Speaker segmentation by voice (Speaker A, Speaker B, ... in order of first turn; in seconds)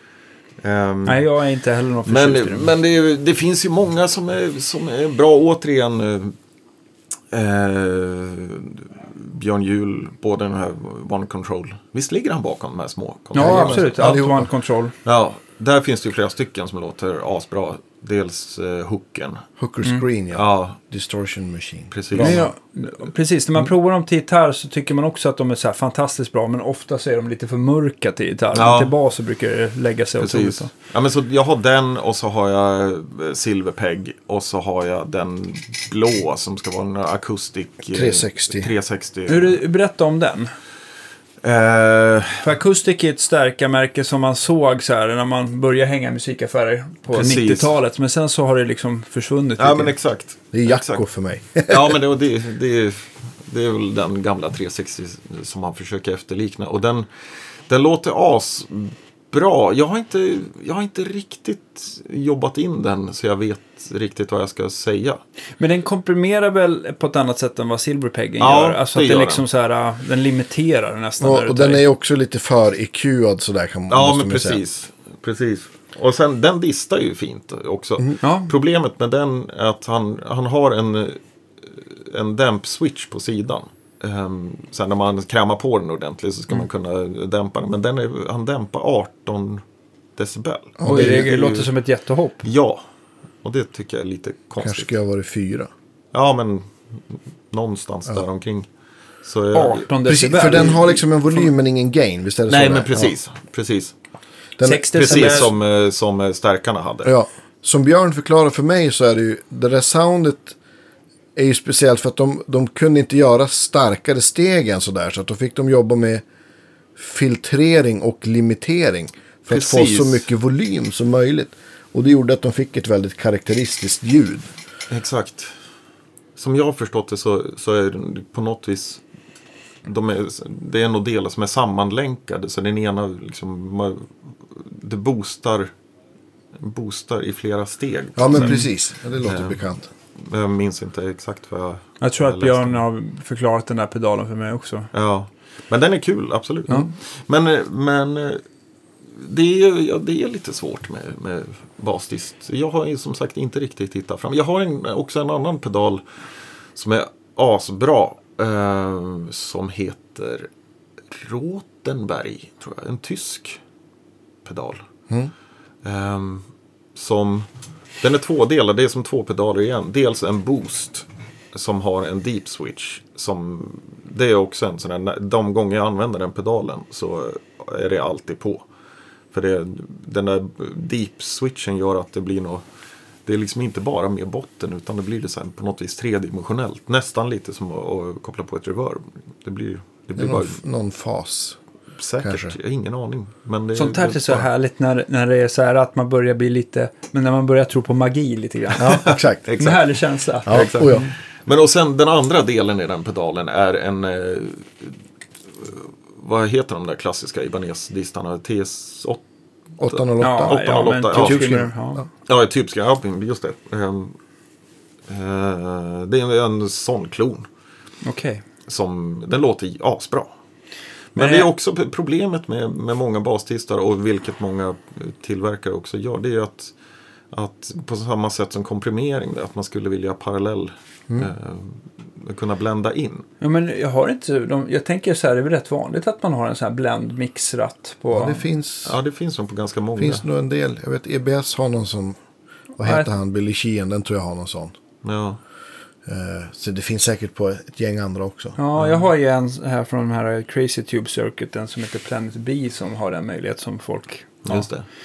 Speaker A: 0.6-1.3, 2.1-6.3, 7.3-14.2, 15.1-19.4, 20.3-20.8, 21.9-22.4, 28.6-28.9, 30.2-39.6, 41.4-42.5, 47.1-47.7, 49.6-51.0, 51.7-57.1, 57.7-65.2, 68.4-69.5, 73.9-89.6, 90.2-91.7, 92.4-92.8, 93.4-94.9, 96.1-98.7, 99.2-99.9, 102.5-103.9, 104.9-107.1, 119.5-120.3, 124.9-125.5, 126.4-129.0, 129.8-135.7, 136.6-138.6, 139.2-139.6, 140.2-142.8, 144.9-148.4, 149.1-156.0, 156.8-160.5, 161.1-163.6, 164.4-164.8, 165.8-166.4, 166.9-167.5, 168.0-178.6, 179.3-182.6, 183.3-190.6, 192.0-194.5, 198.8-205.0, 205.6-209.2, 209.8-211.5, 212.3-214.2, 215.1-217.5, 218.7-220.3, 221.2-226.7, 227.3-233.3, 238.8-240.2, 245.0-245.4, 248.8-249.0, 254.4-254.9
Speaker B: 1.1-2.7, 13.3-14.9, 22.1-30.7, 39.3-40.5, 42.4-50.0, 65.6-71.8, 78.2-78.5, 90.8-92.4, 99.5-101.5, 104.6-105.5, 138.3-138.7, 142.0-144.9, 193.8-199.1, 199.6-201.1, 210.2-212.0, 218.0-218.4, 221.2-221.5, 233.4-238.4, 242.8-243.1, 248.6-254.7
Speaker C: 13.4-14.5, 19.6-22.5, 37.9-38.7, 50.5-52.0, 71.2-74.6, 90.8-91.3, 94.6-95.7, 100.0-103.1, 104.6-105.3, 107.0-110.6, 111.4-116.2, 117.0-124.5, 138.2-139.9, 190.2-191.6, 192.2-192.6, 198.8-199.5, 200.5-201.1, 209.8-212.1, 238.1-239.0, 240.0-242.2, 242.8-244.8, 246.1-248.6